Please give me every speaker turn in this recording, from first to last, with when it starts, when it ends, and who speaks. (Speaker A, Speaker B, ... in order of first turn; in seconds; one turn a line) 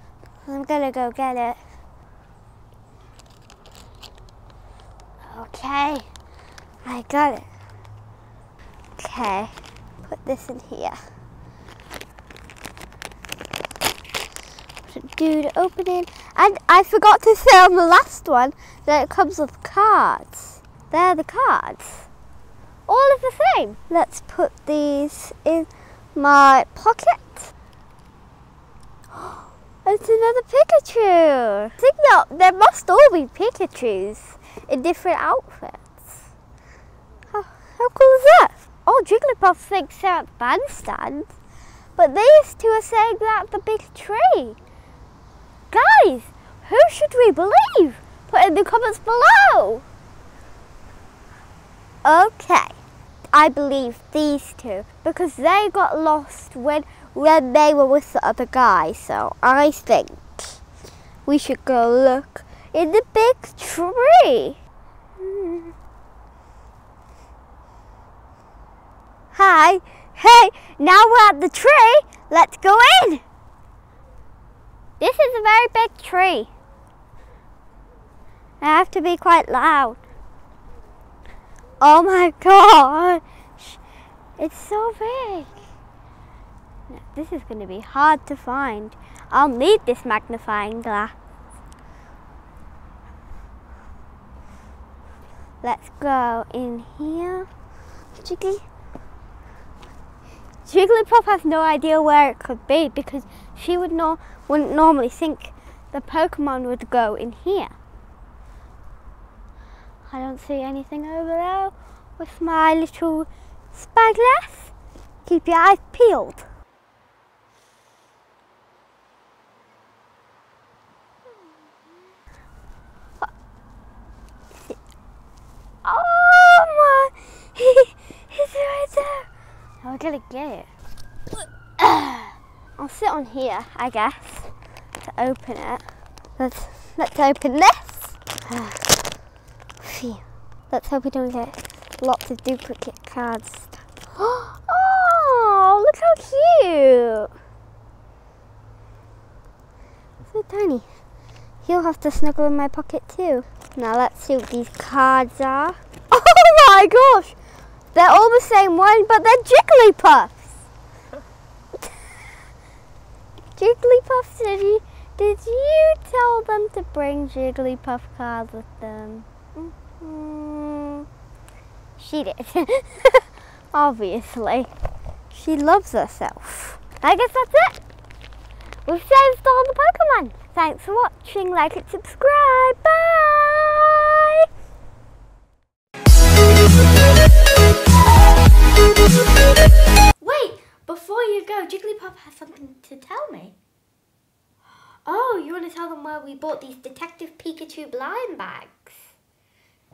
Speaker A: 0.5-1.6
Speaker A: 5.3-6.1
Speaker A: 6.8-7.5
Speaker A: 9.0-11.0
Speaker A: 14.9-22.1
Speaker A: 22.9-27.5
Speaker A: 29.1-36.3
Speaker A: 37.3-41.3
Speaker A: 42.0-44.6
Speaker A: 45.7-49.9
Speaker A: 52.0-52.8
Speaker A: 53.3-60.6
Speaker A: 61.3-64.6
Speaker A: 65.2-65.7
Speaker A: 69.3-73.2
Speaker A: 75.0-76.5
Speaker A: 78.6-80.0
Speaker A: 81.8-83.8
Speaker A: 84.4-85.6
Speaker A: 86.9-91.1
Speaker A: 95.6-97.5
Speaker A: 98.2-98.7
Speaker A: 100.7-107.8
Speaker A: 110.1-114.7
Speaker A: 115.2-116.5
Speaker A: 125.8-129.3
Speaker A: 129.8-130.7
Speaker A: 131.8-135.8
Speaker A: 136.4-138.9
Speaker A: 139.8-147.3
Speaker A: 150.3-150.9
Speaker A: 151.6-157.4
Speaker A: 157.9-160.5
Speaker A: 163.6-171.1
Speaker A: 172.0-174.7
Speaker A: 175.3-177.8
Speaker A: 178.8-184.5
Speaker A: 190.2-193.6
Speaker A: 195.1-199.1